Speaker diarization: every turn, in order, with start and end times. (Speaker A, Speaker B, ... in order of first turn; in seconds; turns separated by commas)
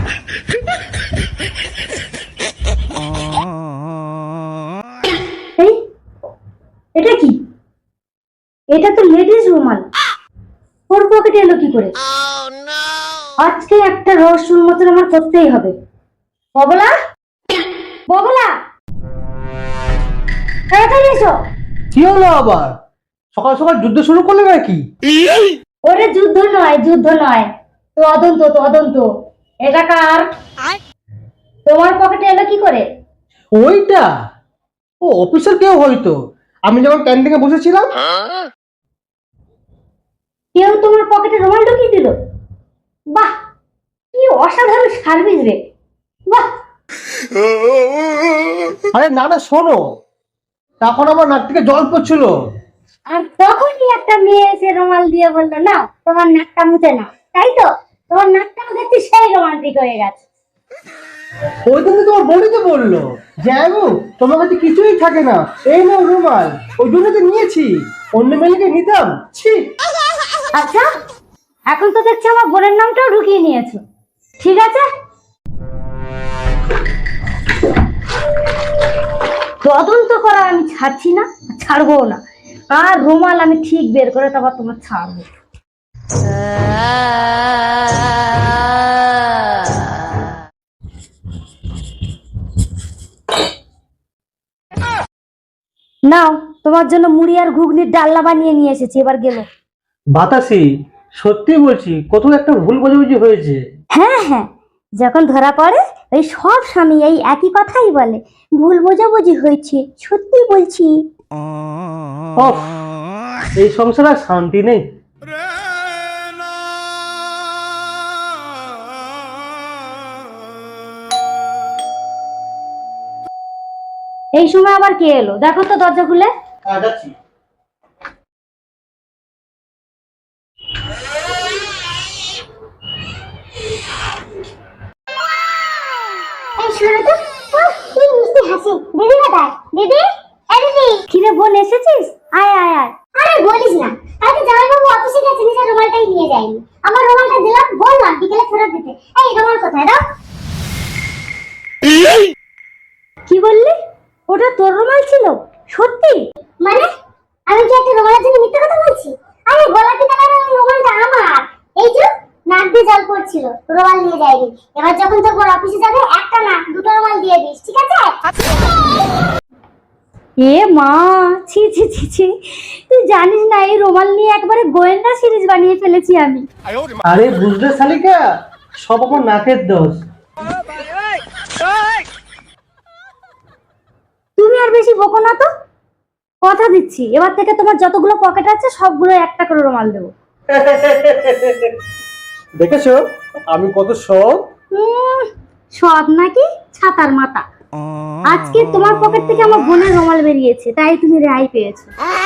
Speaker A: 7.0-7.4, Speaker A: 8.7-9.9, Speaker A: 10.9-11.9, Speaker A: 13.4-15.7, Speaker A: 16.6-16.9, Speaker A: 18.1-18.6, Speaker A: 20.7-21.4, Speaker B: 21.9-22.7, Speaker B: 23.3-24.8, Speaker A: 25.9-29.1, Speaker A: 29.6-30.2, Speaker A: 31.7-32.9, Speaker B: 33.6-34.1, Speaker B: 35.0-37.9, Speaker A: 40.5-42.1, Speaker A: 44.1-45.6, Speaker B: 48.9-49.8, Speaker B: 50.8-52.3, Speaker A: 53.1-60.2, Speaker B: 61.7-69.6, Speaker A: 70.5-70.8, Speaker A: 71.7-73.8, Speaker A: 74.4-74.9, Speaker A: 79.6-85.3, Speaker A: 96.1-99.5, Speaker B: 100.1-100.7, Speaker B: 101.2-103.6, Speaker A: 103.9-111.0, Speaker B: 112.4-112.7, Speaker B: 113.6-114.8, Speaker A: 124.4-126.3, Speaker B: 126.7-127.1, Speaker C: 136.6-141.1, Speaker A: 141.1-142.9, Speaker C: 143.2-150.0, Speaker A: 153.3-153.8, Speaker A: 154.3-156.2, Speaker C: 157.5-168.1, Speaker A: 170.4-176.5, Speaker B: 177.1-178.2, Speaker B: 178.8-180.0, Speaker A: 184.4-185.5, Speaker A: 186.4-190.1, Speaker B: 190.5-191.7, Speaker B: 192.6-194.5, Speaker A: 194.7-197.4, Speaker A: 198.3-201.9